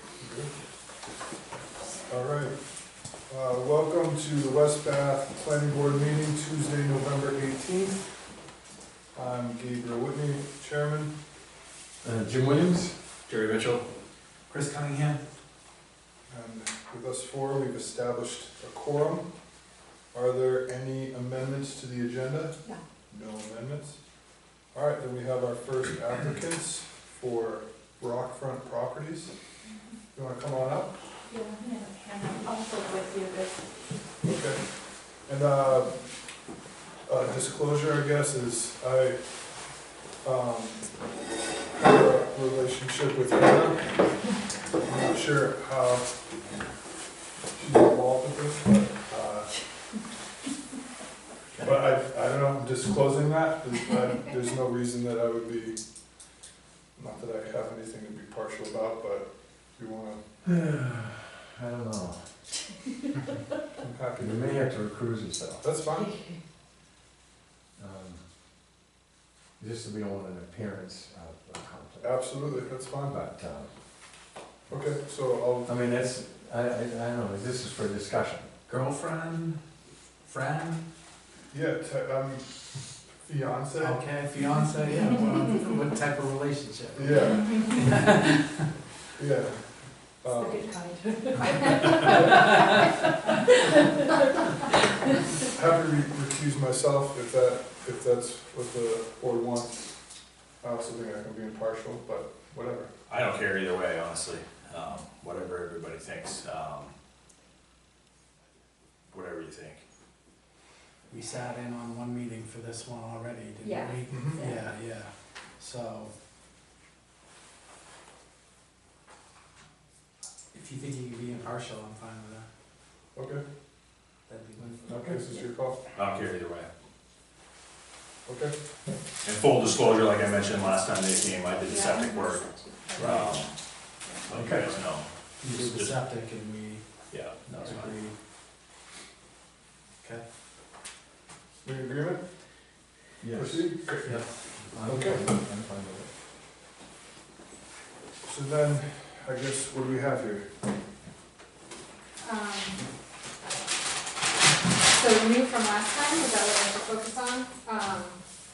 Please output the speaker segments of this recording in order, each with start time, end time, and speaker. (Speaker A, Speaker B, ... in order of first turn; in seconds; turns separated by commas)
Speaker A: 0.2-0.5, Speaker A: 2.1-2.5, Speaker A: 3.3-8.1, Speaker A: 9.1-11.1, Speaker B: 12.0-12.9, Speaker C: 13.3-13.8, Speaker D: 14.5-15.2, Speaker A: 16.3-19.3, Speaker A: 20.1-22.6, Speaker A: 23.1-24.0, Speaker A: 24.7-29.4, Speaker A: 30.1-30.9, Speaker A: 34.2-34.6, Speaker A: 35.2-36.0, Speaker A: 37.1-39.2, Speaker A: 40.2-40.9, Speaker A: 41.7-43.9, Speaker A: 44.8-46.1, Speaker A: 47.5-49.5, Speaker A: 51.6-55.8, Speaker A: 57.0-60.3, Speaker B: 60.5-62.2, Speaker A: 63.8-64.7, Speaker B: 64.2-65.7, Speaker A: 65.6-66.2, Speaker B: 67.8-68.2, Speaker B: 69.6-73.7, Speaker A: 72.0-73.2, Speaker A: 74.7-75.8, Speaker B: 75.7-78.7, Speaker D: 78.7-79.6, Speaker D: 80.2-80.9, Speaker A: 81.5-84.1, Speaker D: 83.8-88.3, Speaker A: 87.0-87.9, Speaker A: 89.2-90.7, Speaker E: 90.3-93.5, Speaker A: 95.5-99.8, Speaker A: 100.6-102.9, Speaker C: 103.1-106.9, Speaker C: 109.1-109.8, Speaker D: 111.1-116.1, Speaker E: 113.6-114.7, Speaker A: 114.1-114.4, Speaker D: 120.5-122.5, Speaker A: 123.2-123.4, Speaker D: 124.3-125.3, Speaker A: 124.6-125.8, Speaker C: 125.9-126.7, Speaker A: 128.2-128.5, Speaker C: 129.2-132.4, Speaker F: 131.7-133.5, Speaker C: 133.0-133.5, Speaker C: 134.3-136.0, Speaker B: 134.3-134.8, Speaker D: 135.4-136.8, Speaker C: 137.1-137.9, Speaker D: 137.5-138.2, Speaker A: 141.6-142.2, Speaker B: 143.2-146.1, Speaker A: 143.3-145.2, Speaker A: 148.2-150.5, Speaker F: 152.2-152.8, Speaker F: 154.8-158.2